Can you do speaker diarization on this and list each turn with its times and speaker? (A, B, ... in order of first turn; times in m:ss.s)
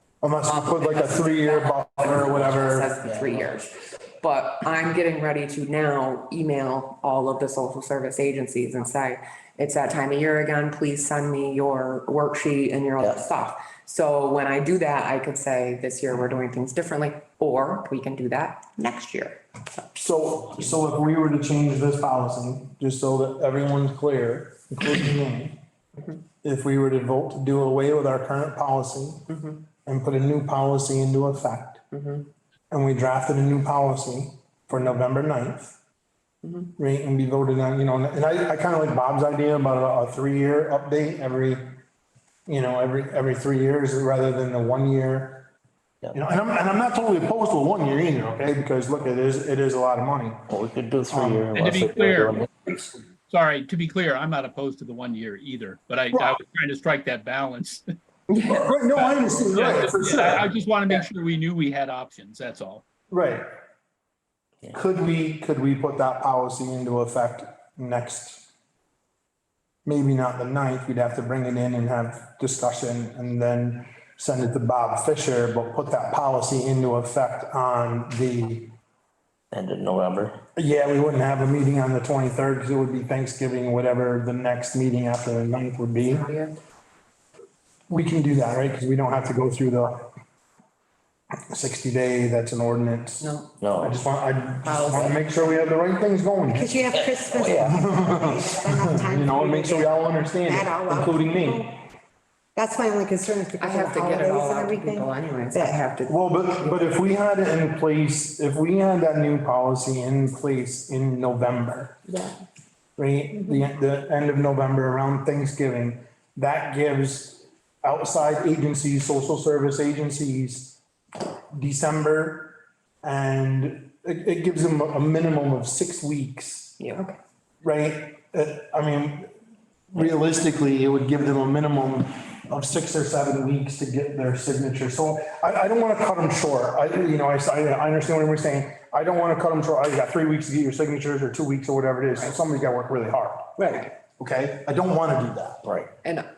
0:00.2-0:02.9 A
0:00.4-0:19.4 B
0:03.0-0:03.5 C
0:13.0-0:13.2 C
0:19.9-0:25.6 A
0:26.4-0:29.2 A
0:29.3-0:29.6 B
0:29.8-0:31.8 A
0:31.9-0:32.3 B
0:32.7-0:35.8 A
0:36.4-0:36.7 B
0:36.8-0:41.8 A
0:42.5-0:45.5 A
0:46.0-0:46.3 C
0:46.1-0:50.5 A
0:50.5-0:52.9 C
0:51.1-0:51.5 A
0:51.6-0:52.4 D
0:53.3-0:57.8 D
0:58.3-0:58.7 B
0:58.5-1:00.5 A
0:58.5-1:02.8 D
1:03.1-1:03.4 A
1:04.7-1:08.5 A
1:09.9-1:18.7 A
1:19.5-1:20.4 C
1:20.6-1:26.3 A
1:26.1-1:26.6 B
1:27.9-1:30.0 A
1:31.5-1:36.7 A
1:33.2-1:33.5 B
1:33.6-1:34.0 C
1:34.6-1:35.2 B
1:36.5-1:41.8 E
1:37.0-1:37.8 C
1:37.6-1:41.7 A
1:42.6-1:45.8 E
1:43.6-1:47.0 B
1:46.1-1:52.0 A
1:52.1-1:52.4 E
1:53.0-2:00.8 A
2:01.5-2:06.8 A
2:06.8-2:07.2 B
2:07.6-2:09.3 A
2:09.9-2:23.6 A
2:23.6-2:23.9 E
2:24.1-2:25.7 A
2:25.6-2:25.9 C
2:26.0-2:26.3 B